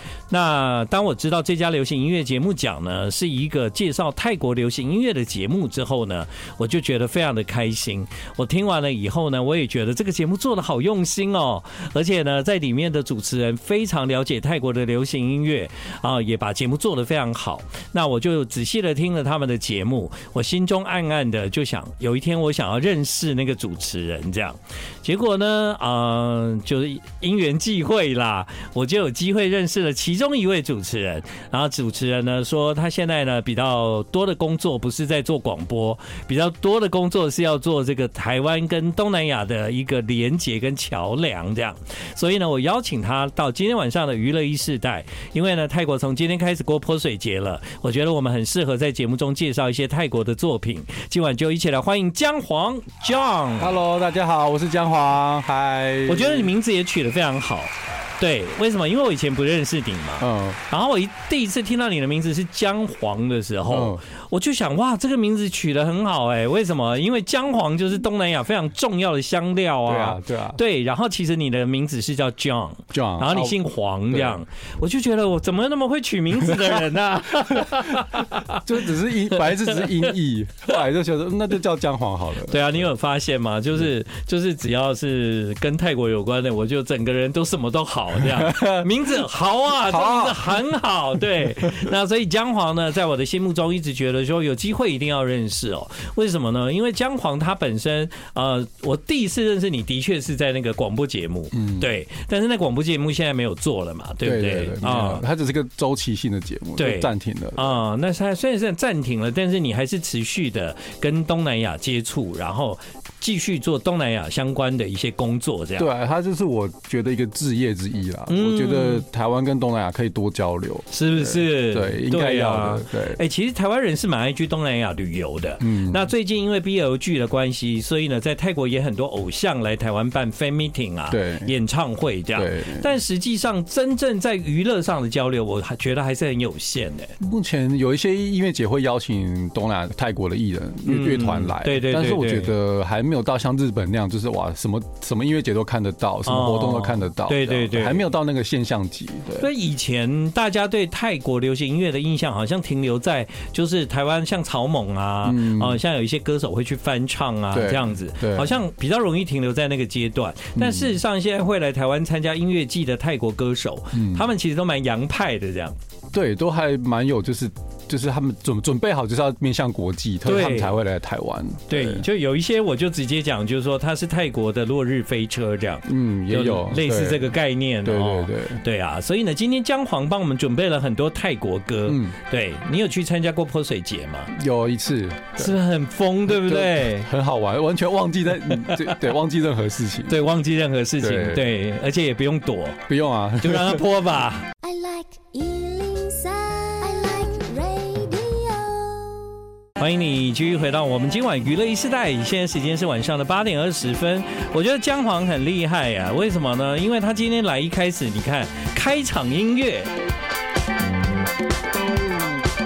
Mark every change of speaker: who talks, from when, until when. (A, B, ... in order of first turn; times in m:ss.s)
0:00.3-0:53.8 A
0:53.6-0:56.5 B
0:56.0-1:18.6 A
1:00.2-1:00.6 B
1:03.7-1:04.0 B
1:09.8-1:10.6 B
1:12.9-1:14.4 B
1:17.6-1:22.8 B
1:19.3-1:20.1 A
1:22.5-1:45.2 A
1:28.2-1:28.9 B
1:29.7-1:30.6 B
1:41.5-1:41.9 B
1:44.2-1:47.8 B
1:46.8-1:55.9 A
1:55.8-2:03.2 B
1:58.3-1:59.0 A
2:00.9-2:17.1 A
2:05.6-2:06.1 B
2:11.1-2:11.5 B
2:12.3-2:12.8 B
2:17.2-2:29.5 B
2:20.9-2:22.5 A
2:26.2-2:28.1 A
2:29.4-2:45.8 A
2:35.2-2:35.8 B
2:37.5-2:38.6 B
2:40.6-2:40.9 B
2:43.9-2:44.3 B
2:46.1-2:52.0 B
2:50.2-2:50.8 A
2:51.7-3:04.3 A
2:55.9-2:58.6 B
3:01.9-3:02.1 B
3:04.3-3:05.6 B
3:05.4-3:07.1 A
3:06.3-3:10.2 B
3:08.6-3:09.0 A
3:10.1-3:12.8 A
3:11.0-3:11.5 B
3:12.9-3:13.8 B
3:13.4-3:14.5 A
3:14.6-3:19.4 C
3:19.8-3:29.9 A